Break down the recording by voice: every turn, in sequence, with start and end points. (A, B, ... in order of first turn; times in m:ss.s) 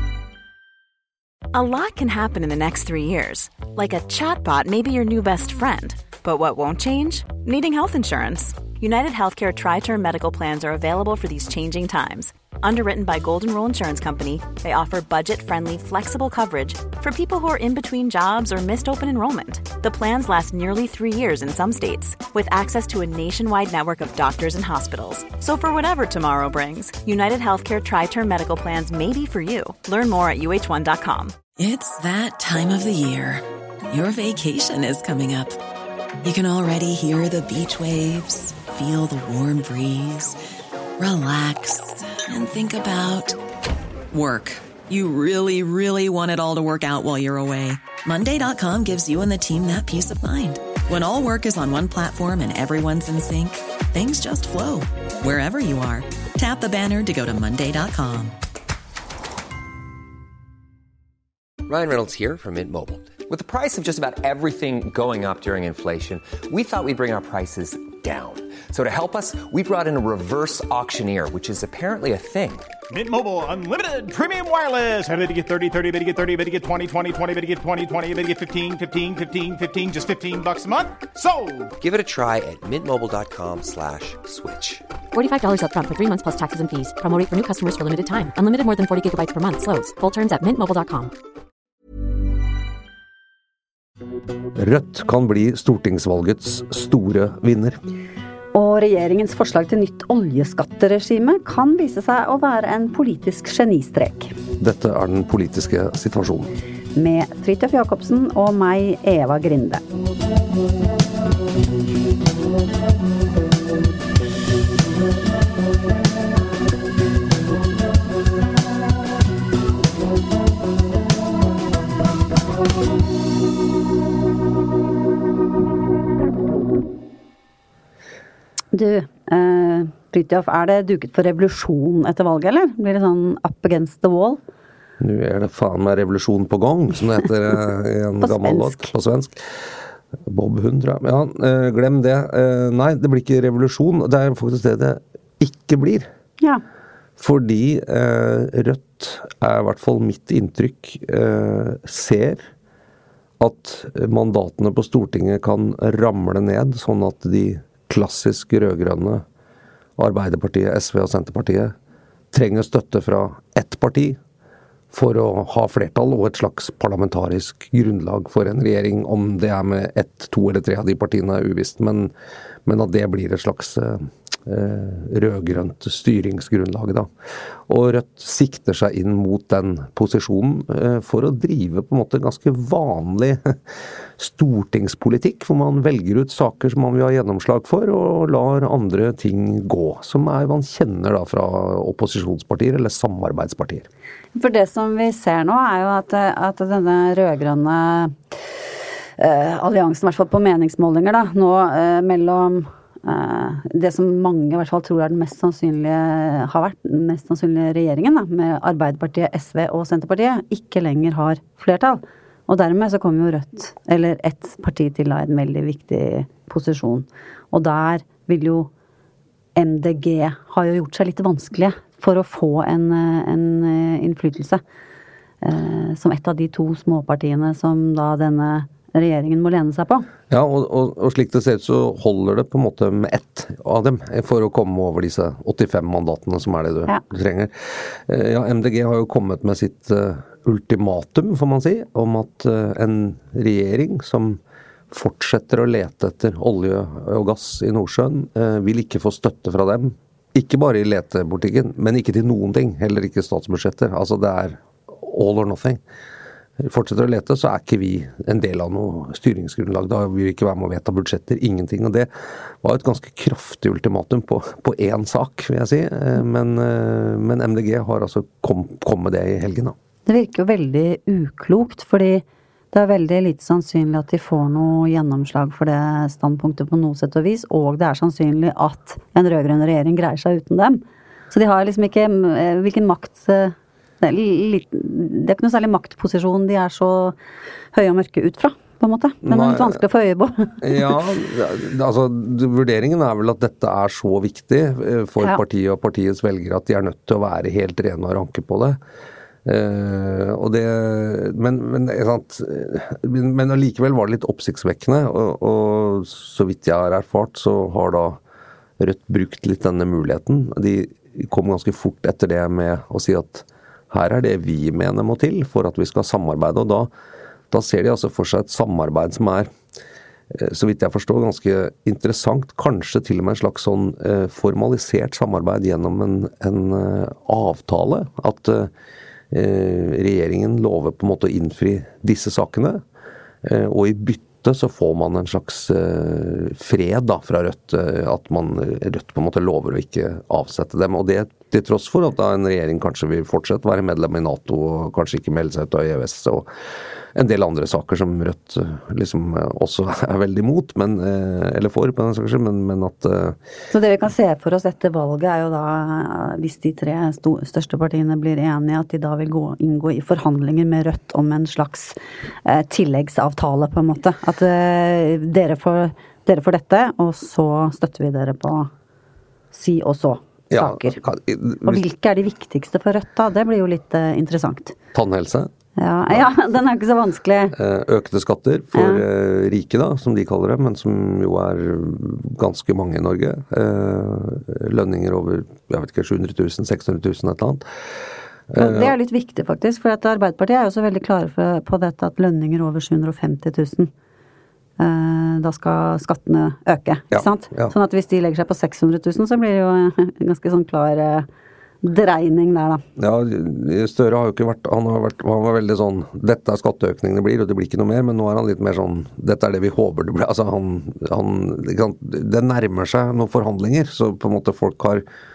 0:01.5-0:31.3 A
0:31.6-0:35.6 B
0:36.2-0:40.4 B
0:41.0-0:43.4 B
0:44.1-0:58.3 B
1:01.6-1:12.7 C
1:12.9-1:21.8 D
1:21.8-1:24.8 C
1:25.1-1:31.1 E
1:34.5-1:37.8 F
1:38.5-1:44.4 G
1:44.6-1:46.5 F
1:47.0-1:49.8 G
2:08.7-2:14.4 G
2:15.0-2:19.7 F
2:18.2-2:18.9 G
2:20.2-2:26.1 F
2:27.2-2:32.5 F
2:33.4-2:39.2 F
2:40.0-2:41.7 F
2:42.3-2:44.2 F
2:44.9-2:52.1 F
2:52.6-2:57.1 F
2:57.7-3:03.6 F
3:04.2-3:13.9 F
3:14.3-3:18.2 G
3:19.2-3:38.7 G
3:39.6-3:44.6 G
3:45.4-3:50.1 G
3:50.3-4:04.4 F
4:04.9-4:15.8 F
4:16.6-4:22.1 F
4:22.6-4:29.8 F
4:30.1-4:47.2 G
4:47.7-4:50.9 G
4:49.2-4:49.8 F
4:50.6-4:58.8 F
4:59.4-5:08.2 F
5:08.8-5:16.9 F
5:17.5-5:19.5 F
5:20.3-5:28.7 F
5:29.3-5:32.8 F
5:33.4-5:46.5 F
5:47.1-5:53.4 F
5:53.7-6:08.7 G
6:09.5-6:11.0 G
6:10.5-6:11.8 F
6:11.6-6:14.7 G
6:14.9-6:15.5 F
6:15.8-6:17.5 G
6:17.5-6:27.6 F
6:18.7-6:19.0 G
6:28.5-6:28.9 F
6:28.6-6:33.9 G
6:34.8-6:41.3 G
6:37.1-6:37.7 F
6:41.8-6:42.8 G
6:43.0-6:55.0 F